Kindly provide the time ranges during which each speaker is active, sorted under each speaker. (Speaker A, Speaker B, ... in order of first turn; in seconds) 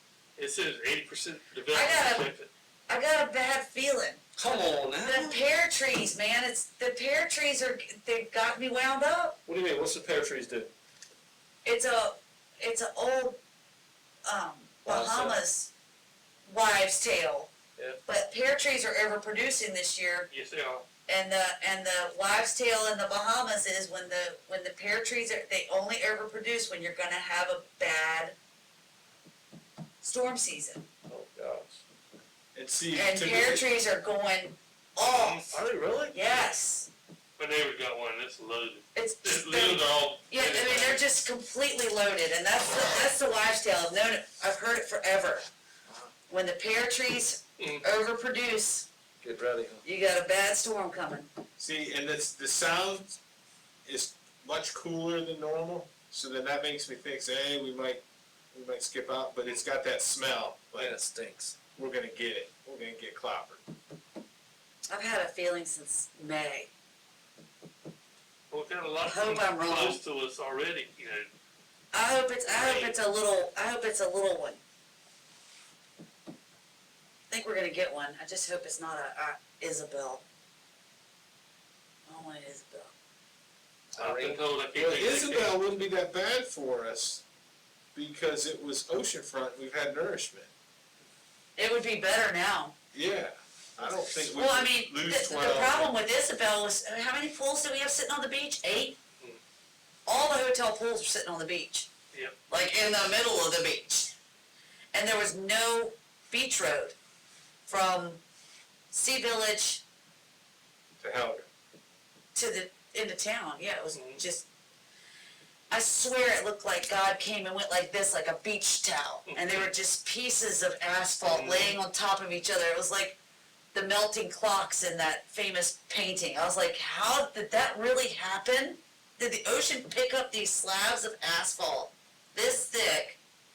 Speaker A: 0.4-2.5, 20.3-20.9, 35.0-35.6, 37.4-41.0, 47.6-47.9, 68.5-71.3, 72.5-73.0, 84.0-85.6, 113.9-114.2, 119.3-119.7, 121.3-121.8
Speaker B: 1.7-2.3, 2.9-4.2, 4.9-9.4, 11.7-13.4, 14.3-15.7, 16.5-17.5, 18.1-20.3, 21.1-28.4, 30.0-30.9, 32.9-35.5, 36.1-36.9, 39.0-45.5, 46.3-48.9, 49.8-51.3, 64.9-66.7, 69.0-70.0, 71.9-74.6, 77.3-80.2, 82.1-82.9, 91.6-92.7, 94.2-99.0, 100.1-101.9, 102.5-104.1, 104.9-107.0, 107.7-108.2, 108.9-109.8, 112.3-114.5, 115.7-123.2, 123.7-133.2
Speaker C: 4.4-5.4, 9.5-10.7, 14.8-15.4, 31.1-31.8, 35.5-36.2, 49.2-49.8, 60.8-61.6, 83.9-84.4
Speaker D: 32.5-33.6, 51.6-53.2, 53.9-61.0, 61.7-63.6, 84.8-87.2, 88.0-90.5, 92.9-95.9, 111.0-111.5